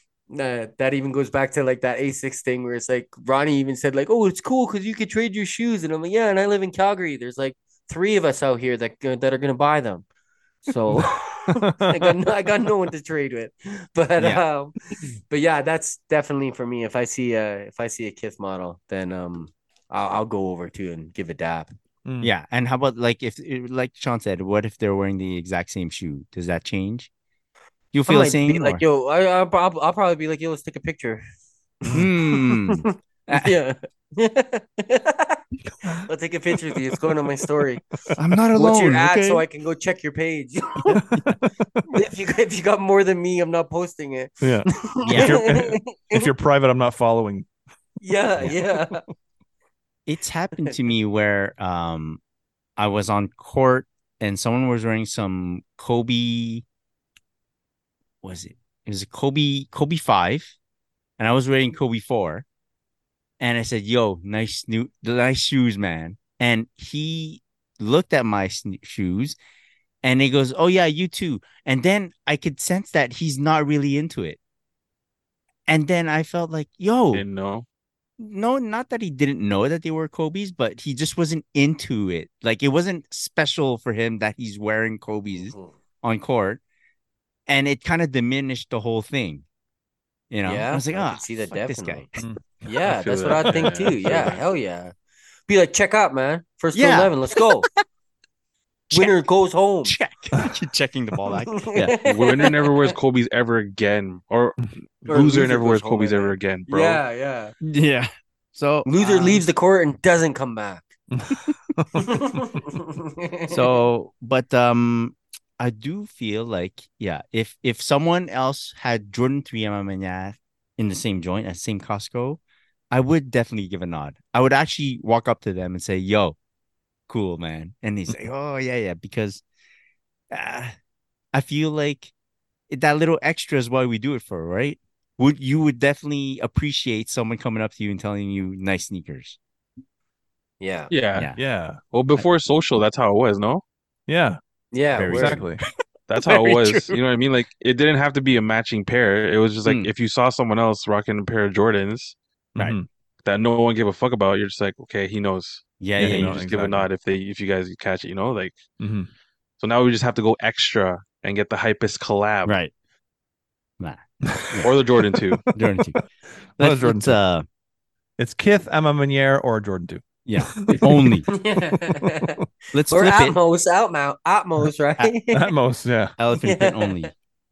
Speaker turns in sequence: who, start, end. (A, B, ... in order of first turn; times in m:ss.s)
0:00.3-0:10.1 A
0:10.6-0:21.7 A
0:11.2-0:12.0 B
0:14.2-0:14.4 C
0:22.0-0:22.3 B
0:22.2-0:27.1 C
0:27.9-0:28.8 C
0:28.1-0:31.2 A
0:31.9-0:37.9 A
0:31.9-0:33.5 C
0:35.7-0:36.0 B
0:38.2-0:38.8 B
0:38.2-0:39.4 C
0:38.6-0:41.2 A
0:41.0-0:41.8 B
0:41.9-0:46.3 A
0:44.4-0:47.5 B
0:45.0-0:45.4 C
0:48.0-0:49.0 A
0:50.1-0:52.2 C
0:52.8-0:56.6 C
0:58.2-1:00.6 C
1:01.2-1:02.4 C
1:03.4-1:09.4 C
1:10.0-1:14.4 C
1:15.7-1:17.2 C
1:17.1-1:17.7 D
1:18.2-1:26.6 C
1:25.4-1:25.8 A
1:27.5-1:29.4 C
1:30.3-1:32.2 C
1:30.4-1:32.1 A
1:32.6-1:34.9 A
1:32.8-1:34.4 D
1:35.5-1:37.7 A
1:36.7-1:37.2 C
1:38.9-1:39.2 C
1:38.9-1:40.0 A
1:39.8-1:42.0 C
1:41.6-1:43.0 A
1:42.0-1:47.0 D
1:45.1-1:47.6 A
1:47.6-1:49.4 C
1:48.9-1:50.9 A
1:51.1-1:52.0 B
1:52.0-1:53.8 A
1:53.5-2:06.4 C
2:07.1-2:09.4 C
2:10.3-2:10.7 C
2:11.3-2:12.1 C
2:12.7-2:19.4 C
2:20.6-2:20.9 A
2:20.9-2:21.3 D
2:21.4-2:21.8 B
2:21.9-2:23.6 D
2:24.1-2:24.4 B
2:24.7-2:25.4 A
2:24.9-2:25.5 C
2:25.1-2:25.6 B
2:26.1-2:32.2 D
2:26.2-2:27.0 C
2:29.6-2:29.9 C
2:32.6-2:32.9 B
2:33.2-2:38.6 D
2:35.8-2:36.5 C
2:36.0-2:36.9 B
2:38.8-2:39.1 B
2:39.6-2:42.5 D
2:42.5-2:42.7 C
2:43.8-2:44.8 C
2:44.3-2:44.7 B
2:44.6-2:45.5 D
2:45.5-2:46.0 C
2:46.6-2:47.5 C
2:46.6-2:47.2 B
2:48.2-2:51.2 B
2:50.3-2:51.3 C
2:51.3-2:55.5 A
2:52.7-2:53.4 C
2:55.3-2:56.2 B
2:56.2-2:57.1 C
2:56.4-2:57.1 A